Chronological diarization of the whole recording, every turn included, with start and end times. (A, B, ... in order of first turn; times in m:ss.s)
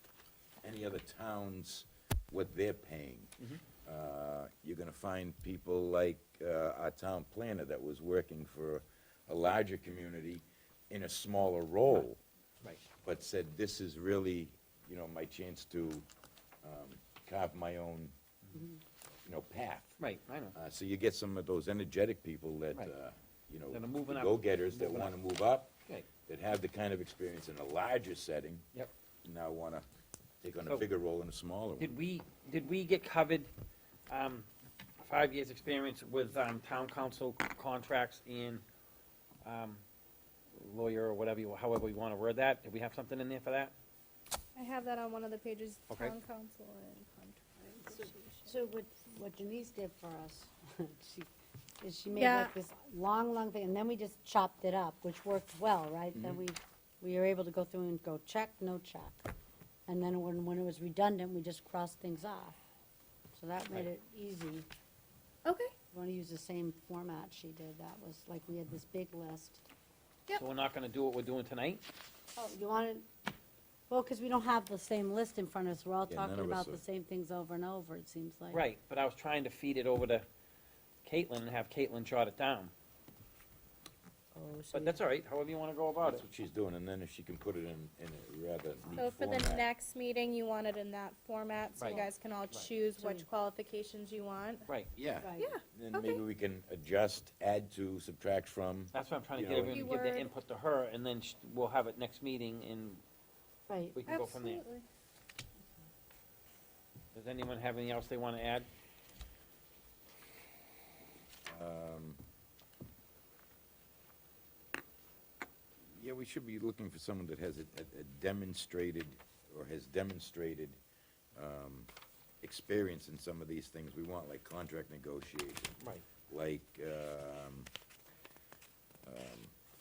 0:00.6-0:03.3 A
0:03.8-0:12.2 A
0:13.0-0:16.1 A
0:16.6-0:18.1 A
0:18.5-0:18.8 B
0:19.3-0:20.0 A
0:20.0-0:20.6 C
0:20.5-0:25.8 A
0:23.7-0:25.1 C
0:26.3-0:28.7 A
0:29.2-0:29.8 A
0:30.4-0:31.9 A
0:31.8-0:33.5 C
0:34.1-0:34.5 C
0:35.0-0:38.6 C
0:39.4-0:39.8 C
0:40.5-0:43.7 C
0:44.6-0:48.5 D
0:45.9-0:46.2 C
0:47.9-0:51.3 B
0:51.8-0:59.3 B
0:52.1-0:52.5 D
0:56.2-0:56.4 A
0:59.9-1:02.6 B
1:03.3-1:04.7 B
1:05.4-1:05.7 D
1:05.9-1:09.6 B
1:10.4-1:11.8 C
1:12.4-1:13.1 B
1:13.9-1:18.6 B
1:16.1-1:16.8 A
1:18.5-1:20.3 C
1:21.0-1:22.7 C
1:24.3-1:25.0 B
1:24.7-1:26.2 C
1:26.0-1:29.7 A
1:29.0-1:34.7 D
1:31.8-1:32.7 C
1:33.0-1:33.2 B
1:35.0-1:39.8 A
1:35.2-1:35.5 B
1:35.4-1:36.2 D
1:38.9-1:43.0 C
1:39.7-1:40.3 D
1:43.7-1:44.0 B
1:43.9-1:44.6 C
1:44.1-1:44.8 D
1:47.1-1:48.7 C
1:51.5-1:52.2 A
1:55.9-2:00.8 A
2:01.4-2:01.9 A
2:02.4-2:07.7 A
2:05.8-2:06.0 C
2:09.1-2:09.5 A